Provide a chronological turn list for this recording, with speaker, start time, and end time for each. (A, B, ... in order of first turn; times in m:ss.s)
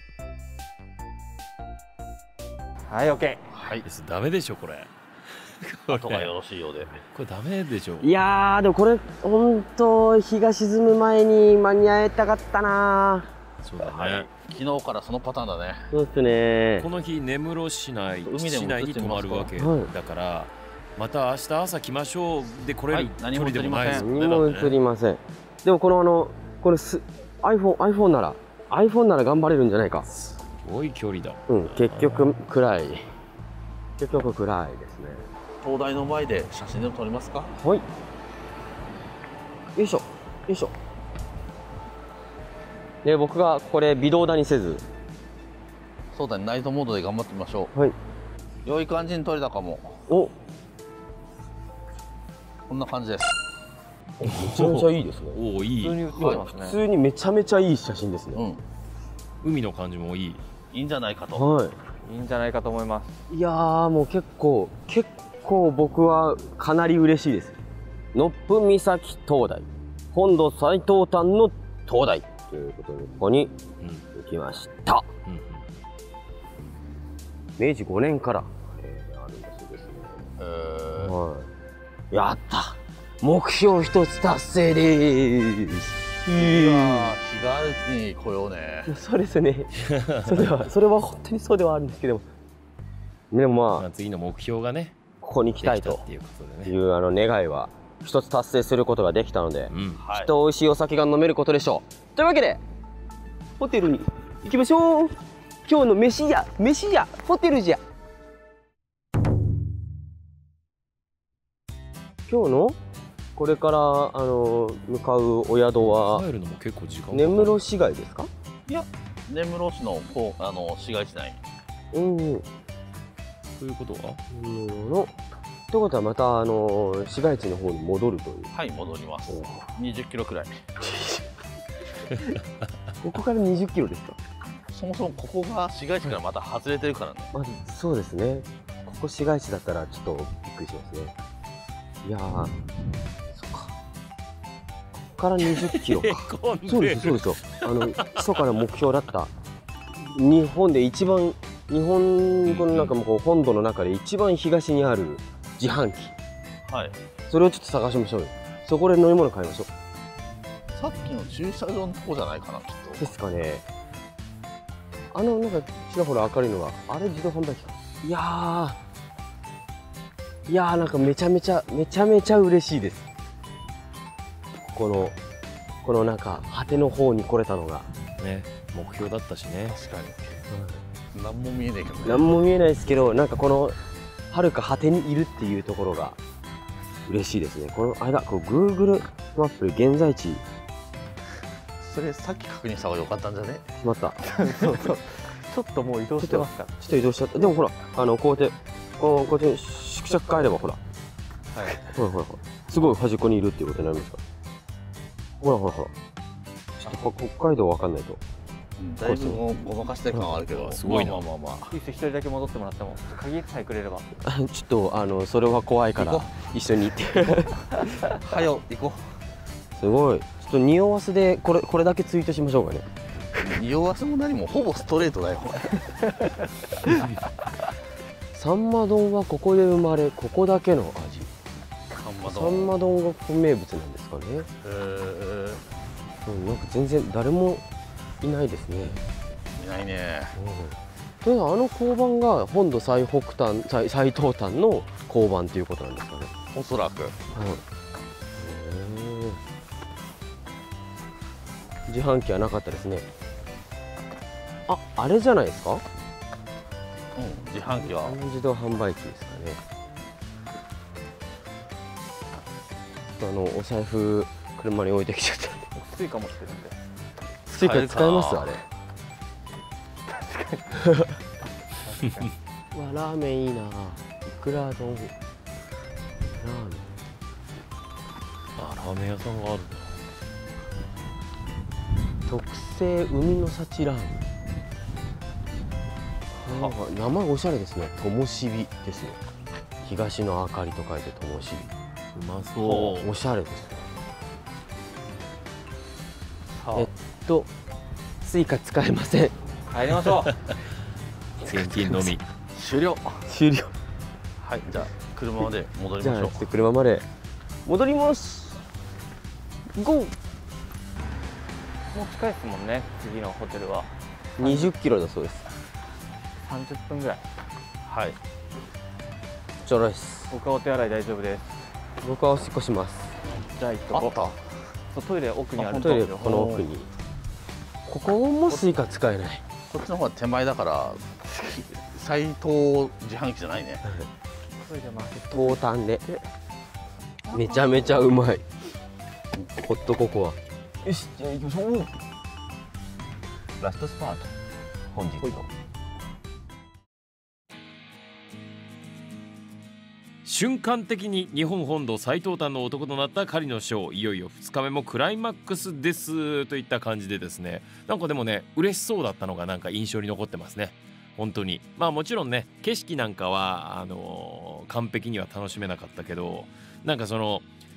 0:02.9-0:03.4 A
0:03.5-0:03.9 B
0:03.8-0:06.3 C
0:05.9-0:07.0 B
0:07.1-0:08.1 C
0:08.0-0:13.3 D
0:13.6-0:14.3 C
0:13.8-0:15.9 B
0:15.9-0:16.9 D
0:16.8-0:24.8 C
0:18.2-0:19.5 B
0:19.6-0:19.9 D
0:22.9-0:24.1 B
0:23.9-0:30.1 D
0:30.1-0:32.3 C
0:31.5-0:33.0 D
0:34.0-0:35.2 D
0:35.6-0:37.5 B
0:37.6-0:37.8 D
0:39.8-0:40.7 D
0:43.0-0:44.8 D
0:46.1-0:47.7 B
0:48.6-0:50.1 B
0:50.1-0:50.4 D
0:52.7-0:53.4 B
0:54.2-0:55.4 D
0:54.2-0:56.0 C
0:55.8-0:56.8 A
0:56.2-0:58.5 D
0:58.3-0:58.6 B
0:59.4-1:00.4 C
1:00.7-1:01.5 B
1:01.4-1:01.8 D
1:02.0-1:03.1 A
1:03.3-1:07.6 D
1:08.1-1:13.5 D
1:14.1-1:15.1 D
1:15.3-1:15.7 C
1:17.6-1:20.2 D
1:20.4-1:21.1 B
1:20.9-1:21.5 D
1:22.1-1:27.2 D
1:26.4-1:29.0 B
1:28.9-1:32.3 D
1:29.9-1:30.5 C
1:33.3-1:33.9 D
1:33.8-1:35.0 C
1:35.2-1:36.1 D
1:35.6-1:36.7 C
1:36.6-1:42.6 D
1:39.7-1:40.0 C
1:40.0-1:40.3 B
1:43.6-1:47.8 D
1:52.3-1:52.8 D
1:53.4-1:56.3 D
1:55.8-1:57.6 C
1:57.1-1:58.3 D
1:58.7-2:01.4 B
2:01.9-2:02.5 D
2:03.6-2:04.2 C
2:04.3-2:05.1 D
2:05.7-2:08.5 D
2:08.5-2:10.6 B
2:09.3-2:09.7 D
2:10.8-2:11.2 D
2:13.0-2:14.2 D
2:14.7-2:17.3 B
2:17.3-2:21.1 D
2:22.0-2:22.5 D
2:23.3-2:23.8 D
2:25.0-2:29.3 D
2:25.4-2:28.4 C
2:30.0-2:36.1 D
2:32.4-2:33.0 C
2:36.7-2:37.0 B
2:37.3-2:39.7 D
2:40.8-2:43.2 B
2:43.0-2:43.6 D
2:45.1-2:48.8 D
2:50.5-2:53.1 D
2:54.7-2:55.2 D
2:55.8-2:57.9 D
2:58.2-2:59.8 C
2:59.7-3:00.4 B
3:00.5-3:00.8 D
3:01.1-3:02.3 B
3:02.0-3:03.8 D
3:04.3-3:06.2 D
3:07.1-3:10.4 D
3:11.8-3:13.7 B
3:13.8-3:14.2 D
3:14.2-3:16.7 A
3:16.2-3:20.8 D
3:21.5-3:21.9 A
3:21.9-3:24.2 D
3:25.4-3:25.9 D
3:26.8-3:28.2 D
3:28.8-3:31.8 B
3:29.0-3:29.4 D
3:30.5-3:31.3 C
3:31.7-3:34.1 A
3:34.2-3:37.8 D
3:36.0-3:36.3 B
3:38.1-3:39.1 B
3:39.8-3:42.8 D
3:43.4-3:45.9 B
3:48.3-3:51.3 D
3:51.9-3:52.8 B
3:52.2-3:54.5 D
3:54.6-3:55.6 B
3:56.2-3:57.6 D
3:58.2-3:59.0 D
3:59.6-4:00.4 B
4:00.4-4:06.3 D
4:06.5-4:07.2 B
4:07.3-4:07.6 D
4:08.4-4:09.4 D
4:11.9-4:13.1 D
4:14.7-4:15.8 D
4:17.2-4:18.2 B
4:17.7-4:19.6 D
4:23.2-4:25.7 D
4:25.8-4:26.8 A
4:27.5-4:28.6 D
4:27.6-4:28.6 B
4:30.1-4:30.8 A
4:31.8-4:32.3 A
4:32.7-4:35.1 D
4:36.4-4:36.9 D
4:38.6-4:40.0 C
4:42.3-4:44.2 D
4:46.4-4:49.2 D
4:49.8-4:51.7 D
4:52.1-4:53.1 C
4:52.6-4:53.8 D
4:56.6-4:56.9 B
4:56.7-4:57.5 D
4:58.2-4:59.4 D
4:59.7-5:00.3 A
5:01.4-5:02.1 D
5:01.4-5:02.2 C
5:02.5-5:03.3 B
5:03.3-5:03.7 D
5:04.4-5:06.5 B
5:06.0-5:07.0 D
5:07.6-5:08.6 D
5:09.7-5:10.1 A
5:11.9-5:14.7 A
5:14.4-5:15.5 D
5:16.4-5:17.2 A
5:17.8-5:18.2 B
5:19.6-5:20.3 D
5:20.3-5:21.7 A
5:22.0-5:23.2 D
5:23.5-5:24.3 A
5:23.9-5:24.4 B
5:24.9-5:26.5 A
5:25.6-5:26.6 B
5:25.7-5:26.9 D
5:27.9-5:29.4 D
5:29.7-5:33.9 B
5:34.6-5:36.2 A
5:35.2-5:36.1 D
5:37.3-5:38.4 D
5:39.5-5:42.0 D
5:43.6-5:44.3 D
5:44.9-5:45.5 D
5:50.2-6:07.5 C